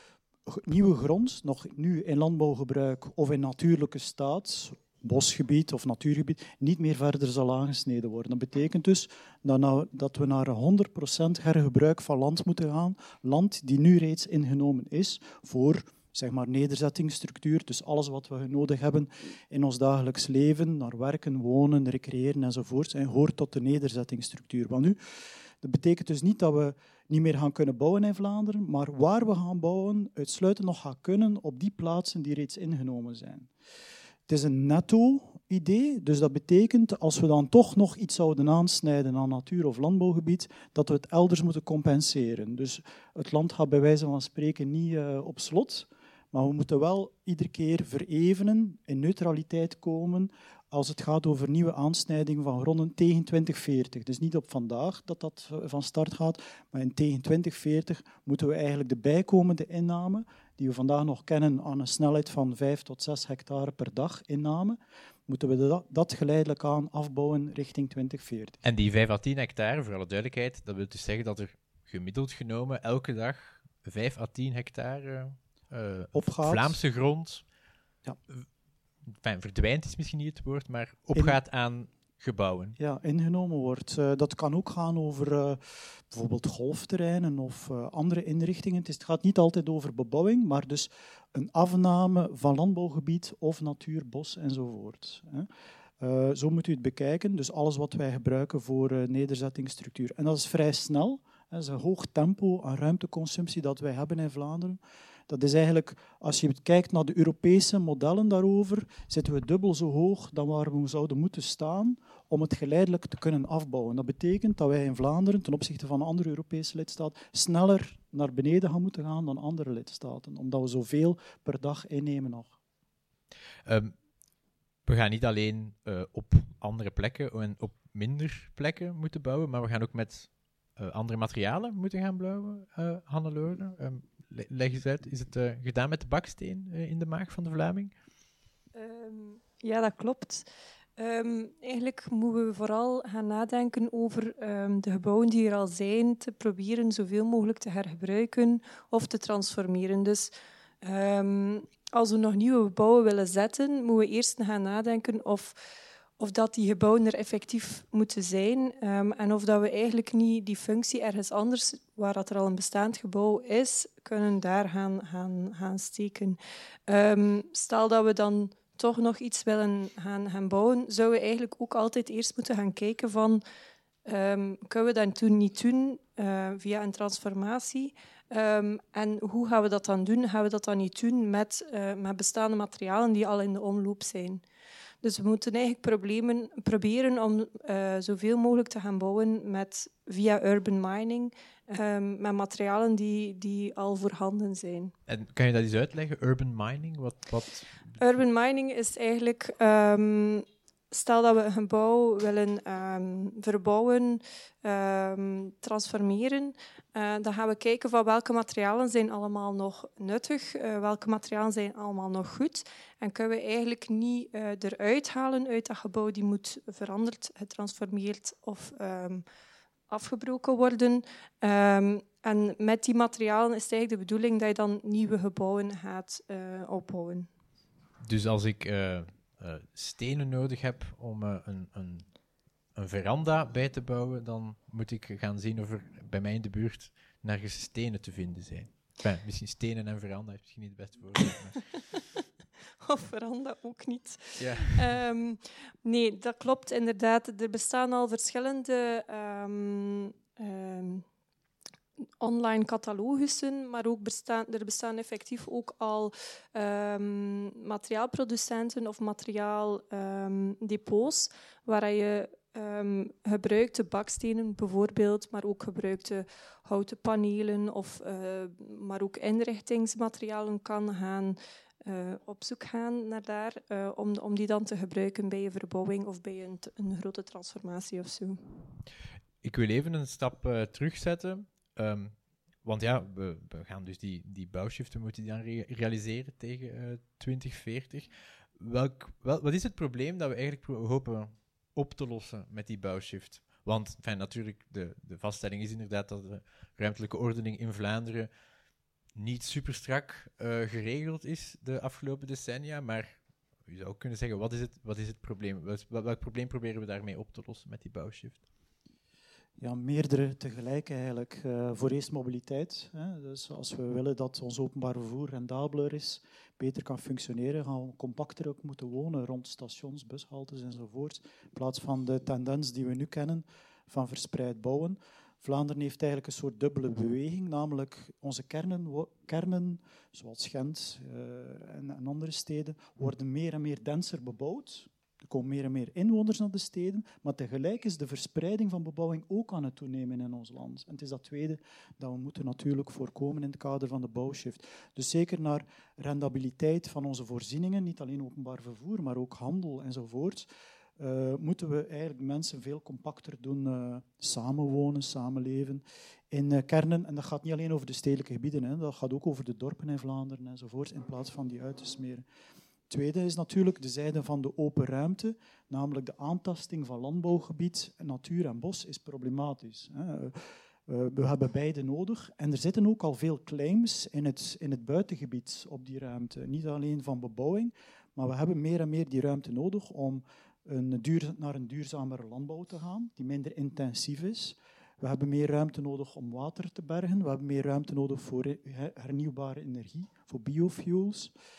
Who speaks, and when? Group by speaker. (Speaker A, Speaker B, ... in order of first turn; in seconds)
Speaker A: 0.5-33.5, 34.3-68.6, 76.1-76.8, 82.8-95.5, 96.0-122.6, 309.6-362.2, 362.9-391.3
Speaker B: 68.6-77.5, 79.0-82.8, 123.7-124.0, 124.9-137.9, 195.1-198.0, 228.0-232.2, 232.7-241.9, 244.4-244.9, 279.4-298.3, 299.1-308.5
Speaker C: 138.7-140.5, 141.0-150.3, 150.8-155.6, 156.2-173.4, 174.1-184.4, 185.0-194.9, 198.0-219.2, 219.9-227.3, 242.8-251.1, 252.2-278.4